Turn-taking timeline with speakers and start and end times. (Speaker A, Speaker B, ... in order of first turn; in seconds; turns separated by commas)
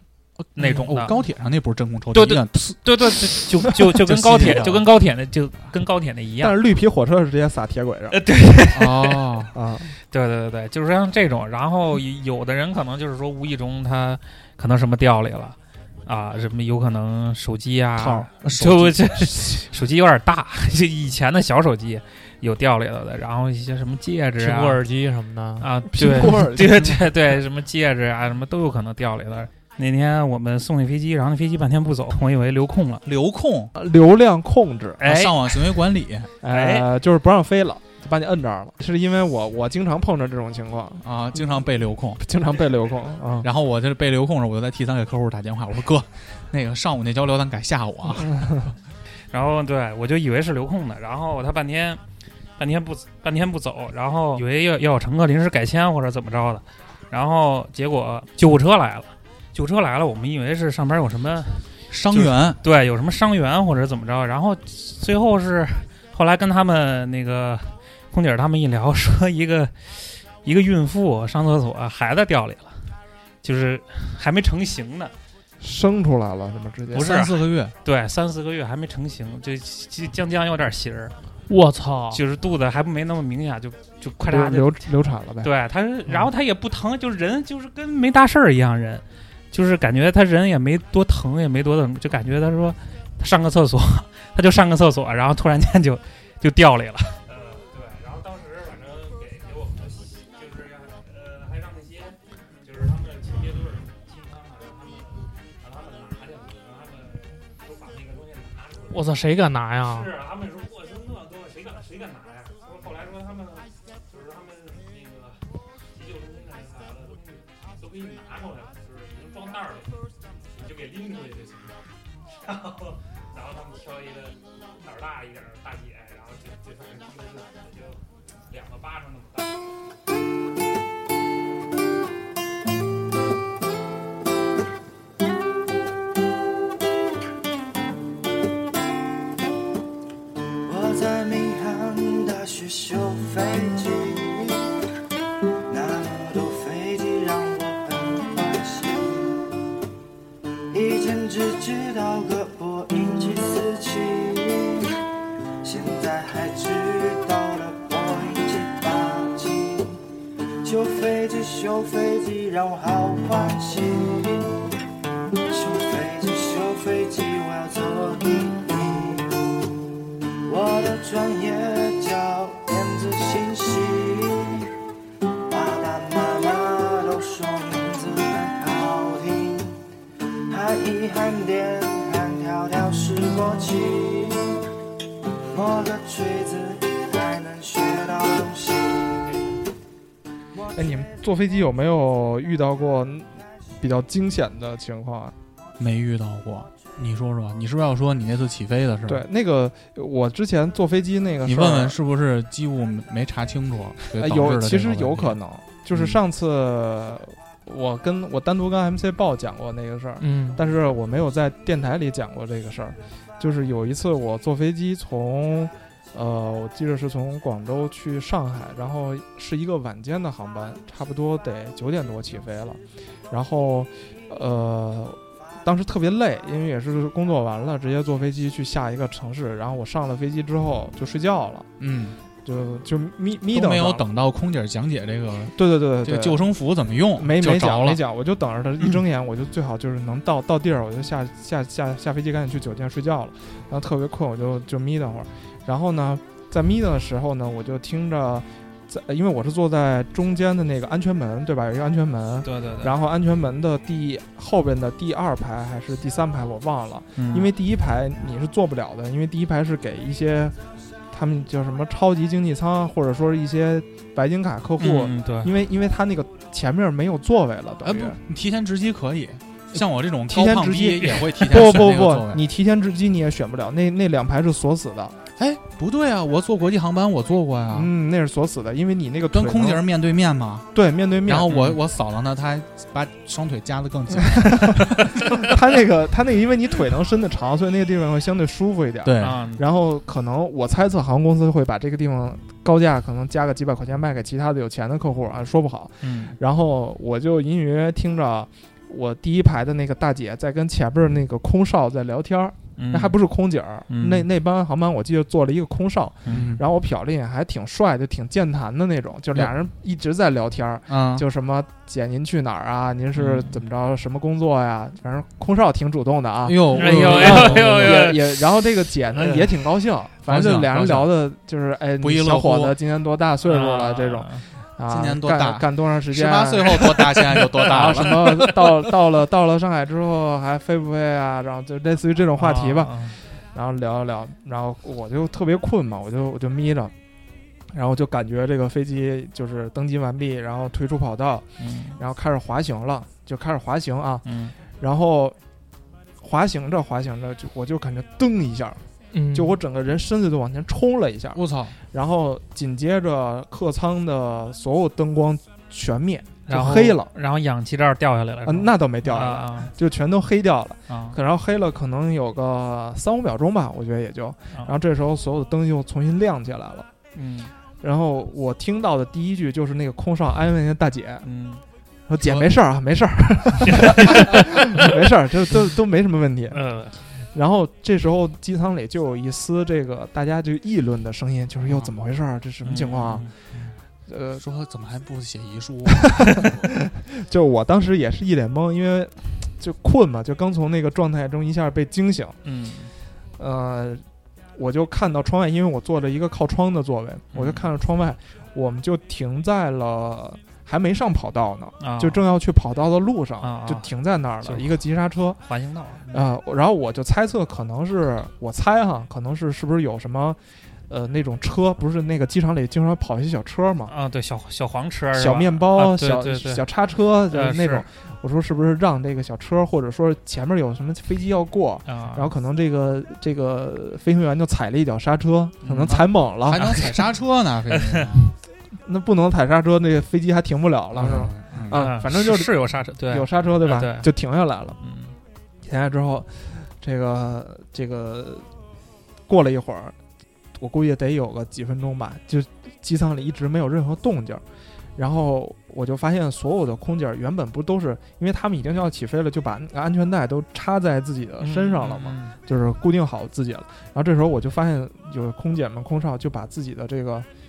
Speaker A: 0.4-3.0, Speaker B: 0.6-1.1, Speaker B: 2.1-6.6, Speaker A: 4.0-4.9, Speaker C: 6.4-8.2, Speaker B: 8.1-9.5, Speaker A: 8.7-9.5, Speaker C: 9.5-9.9, Speaker B: 10.1-24.8, Speaker A: 18.0-19.5, Speaker D: 24.4-25.7, Speaker B: 25.6-33.0, Speaker C: 25.9-27.0, Speaker A: 33.0-33.7, Speaker C: 33.7-35.0, Speaker B: 35.0-35.9, Speaker A: 35.0-36.3, Speaker C: 36.4-41.1, Speaker B: 36.5-36.9, Speaker A: 41.0-42.2, Speaker C: 42.2-43.5, Speaker A: 43.4-48.5, Speaker C: 48.3-48.5, Speaker B: 49.3-52.0, Speaker B: 52.6-72.8, Speaker A: 61.9-62.6, Speaker B: 73.4-75.1, Speaker C: 75.6-77.1, Speaker A: 76.9-77.7, Speaker B: 76.9-81.1, Speaker D: 81.5-82.2, Speaker B: 82.1-84.8, Speaker C: 84.2-85.5, Speaker B: 85.4-102.1, Speaker B: 102.6-109.0, Speaker D: 108.9-110.1, Speaker B: 109.9-113.6, Speaker B: 114.4-115.3, Speaker B: 116.2-117.2, Speaker B: 118.0-119.8, Speaker B: 121.0-121.4, Speaker B: 122.5-124.3, Speaker B: 125.0-127.9, Speaker B: 128.5-129.4, Speaker E: 140.7-144.6, Speaker E: 145.7-149.4, Speaker E: 150.7-154.9, Speaker E: 155.6-159.9, Speaker E: 160.6-164.5, Speaker E: 165.5-169.3, Speaker E: 170.5-174.7, Speaker E: 175.5-179.8, Speaker E: 180.5-184.6, Speaker E: 185.5-189.2, Speaker C: 190.7-195.3, Speaker A: 195.8-199.3, Speaker C: 199.1-201.9, Speaker A: 201.4-205.4, Speaker C: 204.2-231.7, Speaker A: 205.9-206.2, Speaker D: 210.2-210.6, Speaker A: 231.8-232.2, Speaker C: 232.4-234.0, Speaker A: 233.5-238.0, Speaker C: 235.5-236.5, Speaker C: 237.2-260.5, Speaker B: 252.4-252.9, Speaker B: 257.1-257.5, Speaker C: 261.1-268.2, Speaker B: 264.8-265.5, Speaker A: 267.8-272.4, Speaker C: 270.3-275.1, Speaker A: 275.4-277.9, Speaker C: 277.7-279.8, Speaker A: 279.3-280.7, Speaker C: 280.7-281.7, Speaker A: 281.2-285.4, Speaker B: 281.5-281.8, Speaker C: 284.3-336.9, Speaker A: 289.0-289.4, Speaker B: 289.2-289.6, Speaker B: 296.0-296.3, Speaker B: 302.8-303.2, Speaker B: 303.9-304.3, Speaker B: 306.2-306.5, Speaker A: 306.3-306.6, Speaker A: 310.9-311.2, Speaker A: 316.4-318.0, Speaker B: 316.7-318.5, Speaker B: 319.1-319.5, Speaker A: 320.3-321.1, Speaker A: 322.0-322.8, Speaker B: 323.4-324.4, Speaker A: 324.9-328.5, Speaker B: 328.0-328.3, Speaker B: 332.4-333.2, Speaker C: 337.7-341.4, Speaker B: 341.6-342.0, Speaker C: 342.0-345.4, Speaker B: 344.2-344.6, Speaker C: 346.2-348.8, Speaker D: 349.1-349.6, Speaker C: 349.3-357.1, Speaker A: 351.3-351.8, Speaker B: 356.5-359.7, Speaker C: 358.4-366.9, Speaker B: 360.9-361.2, Speaker B: 367.1-367.5, Speaker C: 367.8-371.3, Speaker B: 371.2-371.6, Speaker C: 372.1-376.6, Speaker A: 372.2-372.5, Speaker B: 373.7-374.4, Speaker B: 376.5-377.0, Speaker C: 377.3-383.3, Speaker B: 382.6-383.3, Speaker C: 384.1-384.4, Speaker A: 384.4-386.7, Speaker C: 386.0-392.4, Speaker B: 392.4-392.9, Speaker C: 393.4-394.0, Speaker C: 394.6-405.4, Speaker B: 397.3-397.7, Speaker B: 401.8-402.2, Speaker B: 403.4-403.9, Speaker B: 404.4-404.8, Speaker B: 405.5-406.2, Speaker C: 406.1-413.9, Speaker B: 413.9-416.6, Speaker C: 415.1-426.7, Speaker B: 417.3-417.9, Speaker B: 421.9-422.3, Speaker B: 425.6-427.0, Speaker A: 426.5-428.3, Speaker B: 427.7-428.1, Speaker C: 428.8-434.8, Speaker A: 430.9-431.9, Speaker B: 431.7-434.1, Speaker B: 434.8-435.1, Speaker C: 435.6-438.5, Speaker C: 439.3-439.9, Speaker C: 440.6-444.4, Speaker C: 444.9-457.3, Speaker B: 451.4-452.4